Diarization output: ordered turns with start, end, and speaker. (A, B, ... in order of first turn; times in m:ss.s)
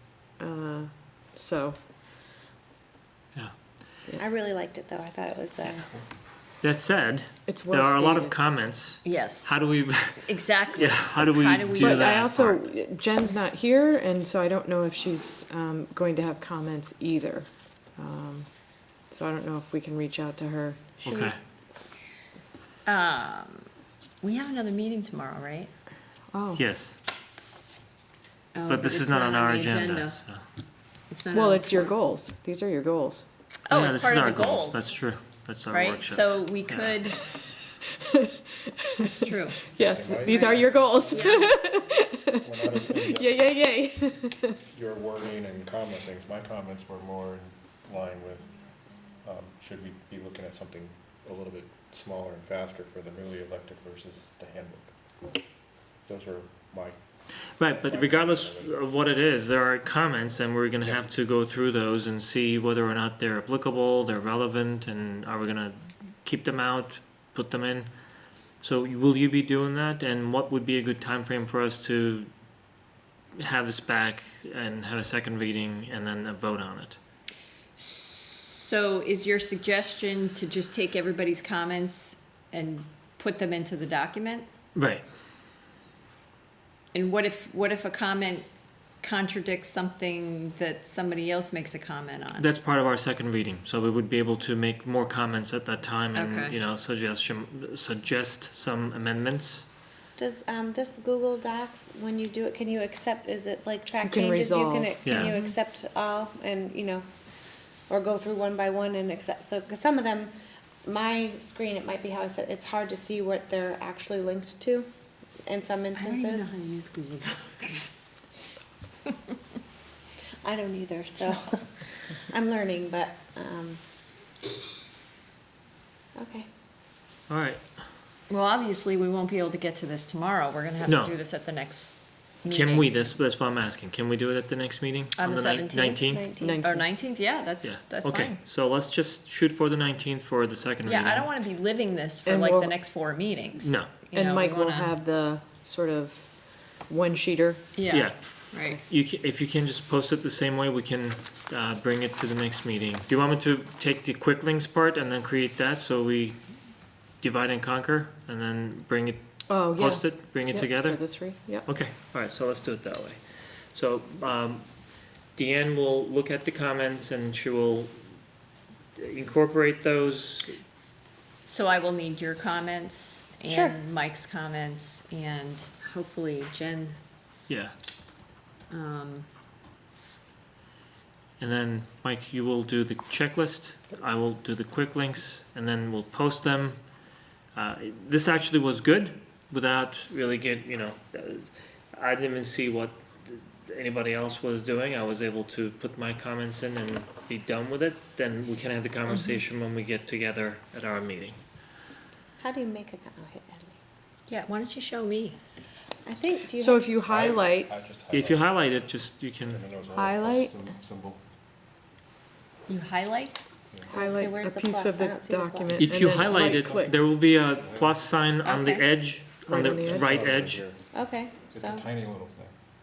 0:00.3-0:01.8 A
0:04.2-0:05.9 B
0:06.6-0:12.6 C
0:07.5-0:08.4 A
0:09.0-0:09.6 D
0:10.2-0:12.2 D
0:11.8-0:18.5 A
0:19.1-0:21.3 A
0:21.0-0:21.4 C
0:22.8-0:23.7 D
0:24.2-0:25.7 D
0:26.3-0:26.6 A
0:26.6-0:27.0 C
0:28.5-0:30.2 D
0:28.7-0:30.4 C
0:31.1-0:31.9 D
0:31.3-0:33.3 A
0:33.6-0:34.9 D
0:33.7-0:37.0 C
0:35.7-0:37.2 D
0:38.8-0:39.1 A
0:39.0-0:39.7 D
0:39.7-0:44.6 A
0:39.7-0:41.0 E
0:40.2-0:41.6 D
0:42.4-0:43.4 E
0:44.7-0:48.6 E
0:49.2-0:54.9 E
0:56.1-0:57.0 E
0:57.6-1:07.9 C
0:57.8-0:58.8 E
1:08.6-1:12.3 C
1:13.4-1:17.0 C
1:17.8-1:24.5 D
1:24.7-1:25.0 C
1:26.9-1:32.5 D
1:32.4-1:39.7 C
1:36.1-1:36.6 D
1:40.2-1:47.0 B
1:44.0-1:45.0 A
1:45.0-1:45.3 C
1:47.9-1:50.3 B
1:50.8-1:54.9 B
1:55.4-1:56.5 B
1:55.9-1:57.9 D
2:00.4-2:03.8 B
2:06.2-2:06.5 B
2:07.3-2:07.6 C
2:08.3-2:12.9 D
2:10.8-2:11.1 C
2:12.5-2:16.2 C
2:15.2-2:18.4 D
2:16.1-2:16.6 B
2:16.4-2:16.9 A
2:17.6-2:21.3 C
2:20.8-2:24.9 D
2:22.2-2:22.7 A
2:23.6-2:23.9 C
2:24.1-2:27.6 A
2:27.8-2:28.8 D
2:27.9-2:28.2 C
2:28.7-2:36.4 C
2:37.2-2:43.2 C
2:39.5-2:41.7 A
2:43.7-2:44.6 C
2:45.3-2:47.9 C
2:49.0-2:50.5 C
2:51.4-2:57.0 D
2:53.5-2:53.8 B
2:57.5-2:57.7 C
2:58.7-2:59.3 D
3:01.4-3:06.8 C
3:07.5-3:21.4 C
3:22.4-3:23.7 B
3:24.3-3:25.4 D
3:26.0-3:27.0 B
3:26.6-3:27.7 A
3:27.0-3:28.8 E
3:28.1-3:29.6 C
3:29.4-3:31.2 E
3:29.9-3:30.6 A
3:32.7-3:33.4 D
3:33.9-3:35.9 B
3:33.9-3:36.9 A
3:35.8-3:40.6 C
3:36.3-3:36.9 E
3:37.5-3:38.0 E
3:38.4-3:38.8 D
3:39.5-3:40.0 A
3:39.6-3:40.8 E
3:40.9-3:41.8 B
3:41.5-3:42.5 E